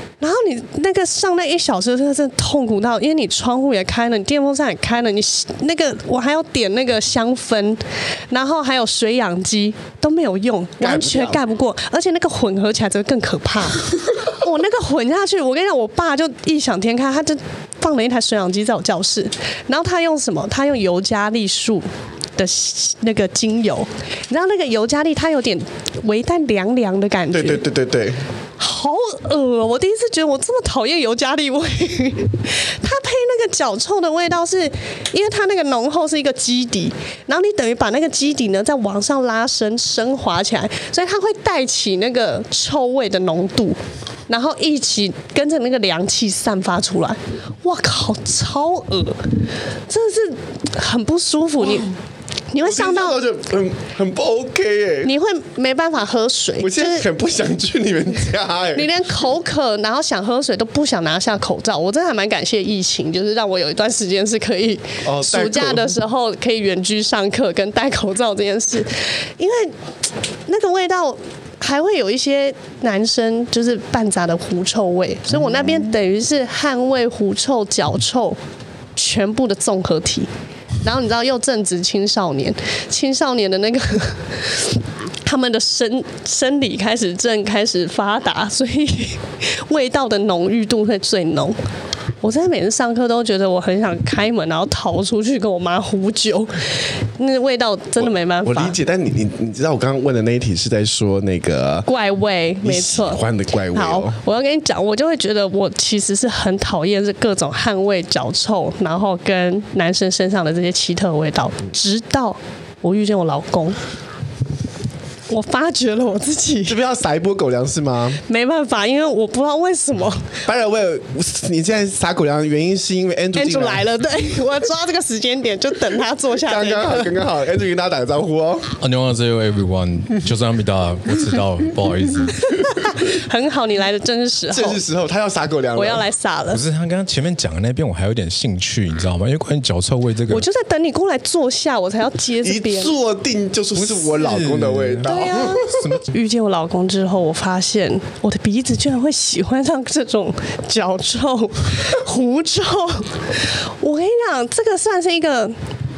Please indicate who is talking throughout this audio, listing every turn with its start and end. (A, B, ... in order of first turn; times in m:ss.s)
0:00.2-0:27.6 A
0:10.8-0:11.4 B
0:27.3-0:28.2 B
0:28.6-0:49.4 A
0:49.9-0:51.9 A
0:52.5-0:53.2 A
0:52.6-0:55.1 B
0:55.0-0:57.1 A
0:56.6-0:58.9 B
0:58.7-1:09.8 A
1:05.0-1:06.0 B
1:10.5-1:18.4 A
1:19.0-1:20.3 A
1:20.8-1:31.6 A
1:32.2-1:36.6 A
1:37.2-1:38.8 A
1:38.0-1:41.9 B
1:41.9-1:53.8 A
1:42.6-1:44.2 B
1:55.3-1:56.8 A
1:56.6-1:58.2 B
1:58.3-2:00.3 A
2:00.4-2:03.9 B
2:03.4-2:07.1 A
2:06.4-2:08.8 B
2:08.8-2:12.5 C
2:12.4-2:14.8 A
2:14.5-2:16.0 B
2:15.8-2:16.6 A
2:16.5-2:20.4 C
2:20.3-2:22.9 A
2:22.4-2:25.8 B
2:23.8-2:26.0 C
2:25.0-2:35.6 A